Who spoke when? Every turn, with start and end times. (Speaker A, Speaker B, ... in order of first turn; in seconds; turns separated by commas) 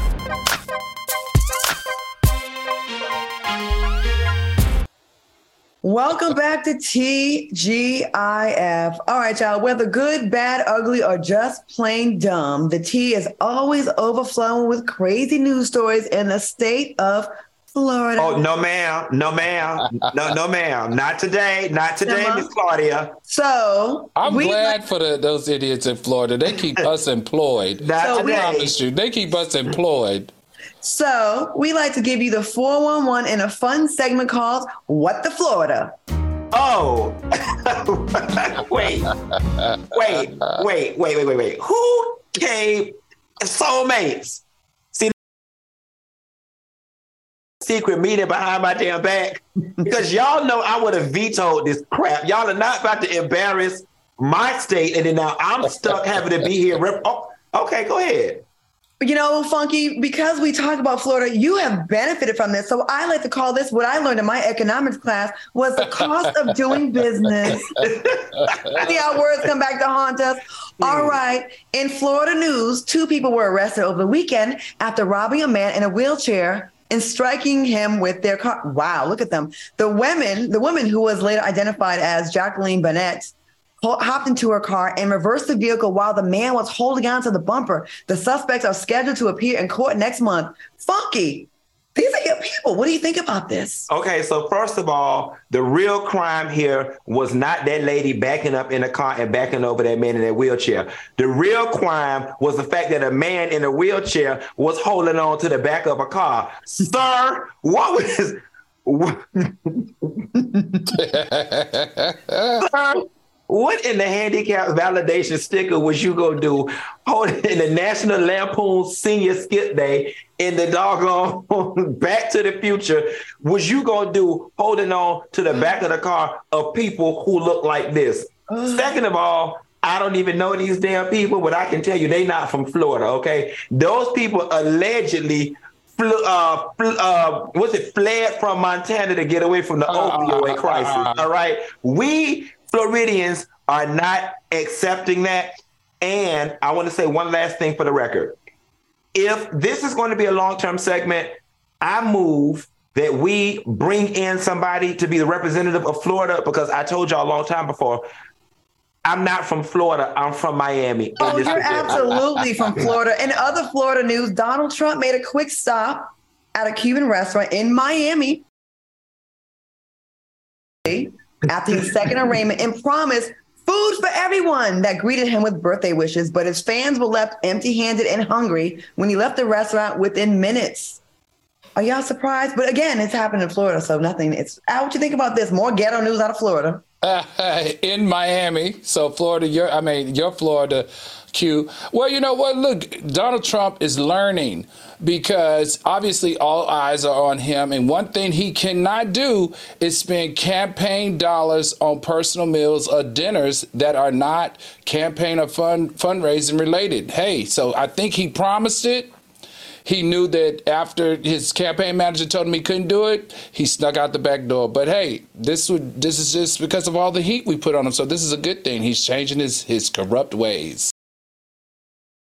Speaker A: 5.8-18.4, Speaker B: 18.2-23.2, Speaker A: 22.1-22.5, Speaker A: 23.3-24.8, Speaker C: 24.2-30.3, Speaker B: 27.8-28.8, Speaker A: 28.0-28.4, Speaker A: 30.8-36.0, Speaker B: 36.5-39.1, Speaker B: 39.9-45.1, Speaker B: 47.6-58.5, Speaker A: 59.0-67.7, Speaker B: 67.8-68.9, Speaker A: 68.7-93.9, Speaker B: 70.8-71.2, Speaker B: 93.9-110.4, Speaker C: 111.0-112.6, Speaker B: 112.6-148.4, Speaker A: 128.5-128.9, Speaker C: 139.9-141.2, Speaker B: 149.1-158.1, Speaker B: 159.1-162.1, Speaker A: 161.2-168.4, Speaker A: 170.8-181.0, Speaker A: 181.8-186.8, Speaker C: 187.0-209.1, Speaker C: 209.8-220.9